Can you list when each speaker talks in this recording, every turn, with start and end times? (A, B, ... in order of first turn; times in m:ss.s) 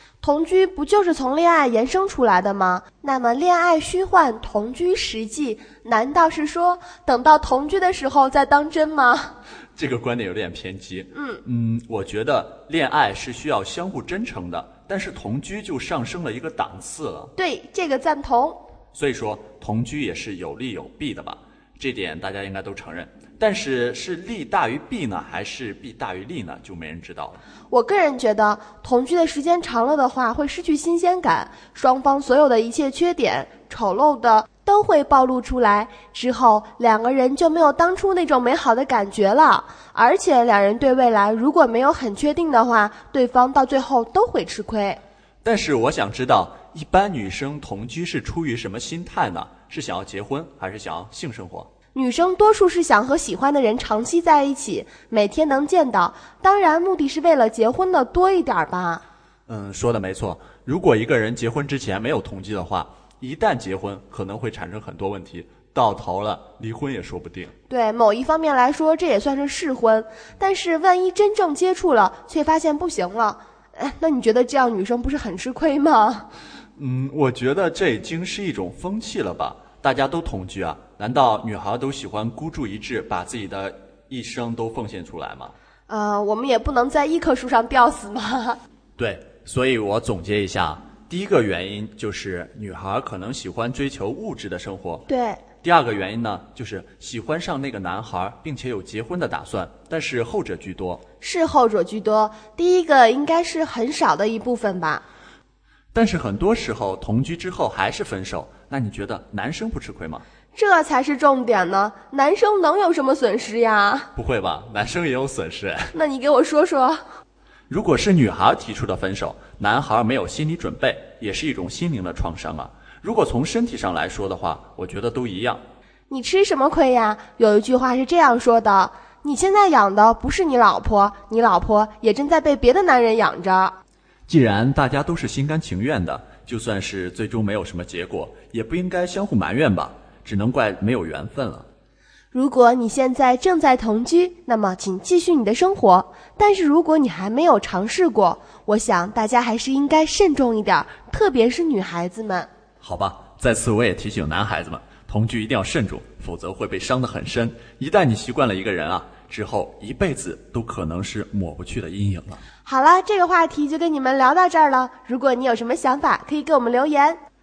0:00.2-0:09.3 A
0:09.8-0:17.3 B
0:11.1-0:11.4 A
0:17.4-0:18.6 A
0:18.9-0:27.4 B
0:27.7-0:45.0 A
0:45.4-0:51.7 B
0:51.9-0:59.0 A
0:59.5-1:07.5 B
1:07.7-1:16.3 A
1:16.8-1:25.5 B
1:25.9-1:28.6 A
1:29.0-1:35.0 B
1:35.1-1:35.4 A
1:35.6-1:41.0 B
1:41.2-1:45.0 A
1:45.9-1:50.2 B
1:50.6-1:54.1 A
1:54.2-1:55.9 B
1:55.9-1:57.0 A
1:57.7-2:05.6 B
2:06.1-2:13.8 A
2:14.3-2:21.7 B
2:22.3-2:32.5 A
2:32.8-2:42.4 B
2:42.6-2:47.2 A